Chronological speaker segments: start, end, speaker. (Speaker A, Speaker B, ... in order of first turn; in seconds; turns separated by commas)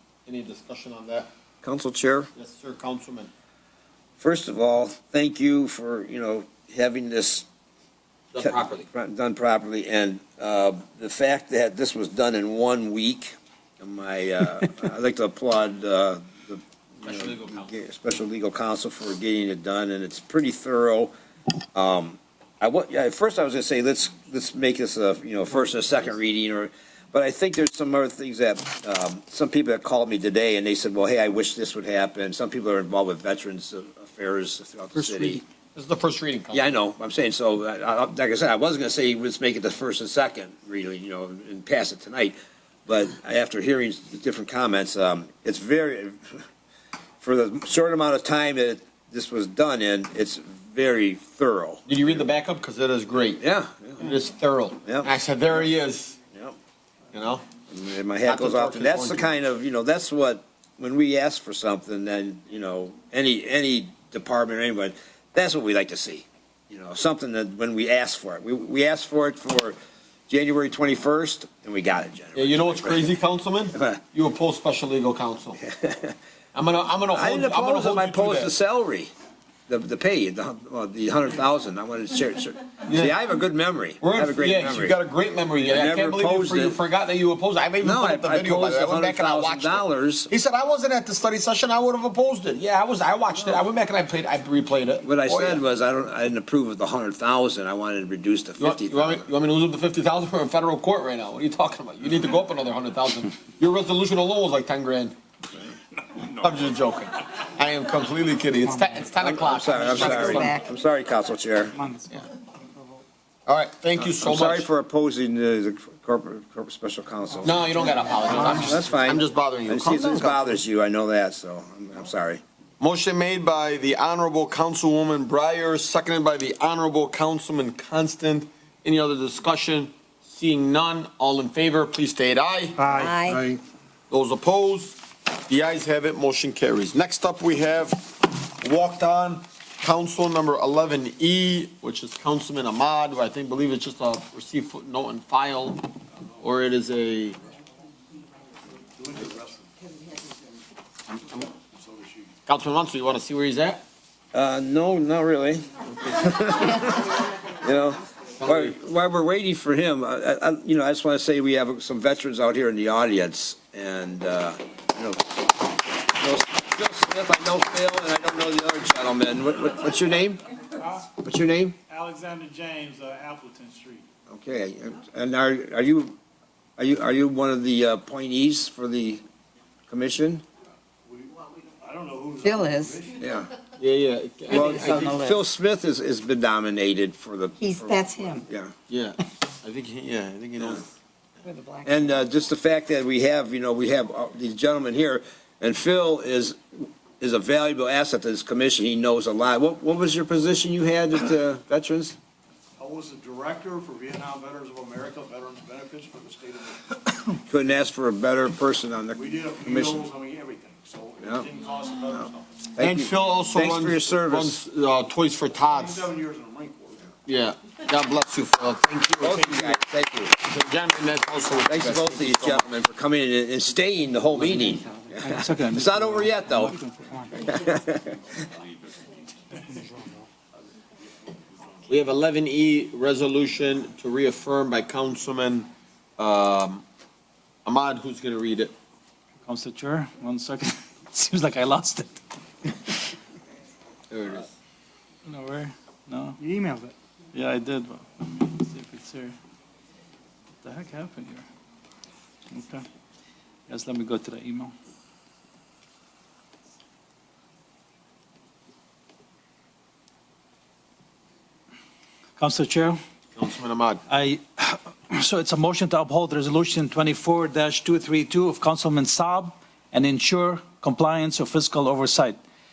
Speaker A: 0.3-1.3, Speaker B: 1.6-2.3, Speaker A: 2.4-3.3, Speaker B: 4.2-7.5, Speaker A: 8.3-8.9, Speaker B: 8.4-21.1, Speaker A: 17.0-17.7, Speaker B: 21.8-35.4, Speaker A: 35.0-36.8, Speaker B: 36.5-42.4, Speaker B: 42.9-46.4, Speaker B: 47.2-52.0, Speaker A: 51.9-53.4, Speaker B: 53.4-54.1, Speaker A: 54.0-56.2, Speaker A: 57.1-57.4, Speaker B: 57.7-69.8, Speaker A: 58.2-59.4, Speaker B: 70.3-73.2, Speaker A: 72.3-75.6, Speaker B: 73.8-74.0, Speaker B: 75.6-76.2, Speaker A: 76.5-78.5, Speaker B: 77.1-79.1, Speaker B: 79.7-85.0, Speaker A: 82.9-83.1, Speaker A: 84.0-95.6, Speaker B: 85.7-86.8, Speaker B: 87.8-90.3, Speaker B: 95.0-99.3, Speaker A: 98.6-105.2, Speaker A: 106.2-110.5, Speaker B: 109.2-111.8, Speaker C: 109.7-110.7, Speaker A: 113.5-114.7, Speaker B: 114.0-117.6, Speaker A: 117.4-120.6, Speaker B: 118.3-122.4, Speaker A: 122.8-133.0, Speaker C: 132.9-133.5, Speaker A: 134.1-147.4, Speaker D: 148.9-149.7, Speaker A: 151.1-151.5, Speaker D: 151.7-152.3, Speaker A: 152.4-153.8, Speaker B: 154.3-170.4, Speaker A: 158.4-158.8, Speaker B: 171.2-171.8, Speaker D: 171.9-174.1, Speaker B: 174.3-176.2, Speaker B: 176.8-179.2, Speaker B: 179.9-180.4, Speaker D: 181.1-183.2, Speaker C: 182.4-183.0, Speaker B: 183.2-183.5, Speaker A: 183.8-185.1, Speaker B: 184.5-188.7, Speaker C: 184.5-185.4, Speaker C: 187.6-188.4, Speaker A: 188.9-190.9, Speaker C: 191.4-192.1, Speaker B: 191.8-202.2, Speaker D: 202.8-207.0, Speaker B: 207.5-210.0, Speaker D: 209.1-212.7, Speaker B: 212.8-214.6, Speaker A: 212.8-216.1, Speaker D: 215.6-217.1, Speaker A: 217.2-219.8, Speaker B: 219.2-220.3, Speaker A: 220.3-222.8, Speaker B: 221.7-226.8, Speaker A: 224.4-224.7, Speaker E: 225.2-227.4, Speaker B: 227.4-228.2, Speaker D: 231.0-232.2, Speaker A: 231.9-236.8, Speaker A: 237.7-238.7, Speaker E: 239.4-242.9, Speaker A: 244.1-244.5, Speaker E: 245.3-246.4, Speaker E: 247.3-249.3, Speaker E: 250.6-251.5, Speaker E: 252.5-252.9, Speaker E: 253.7-254.7, Speaker E: 262.4-263.0, Speaker A: 263.4-264.0, Speaker E: 264.1-272.4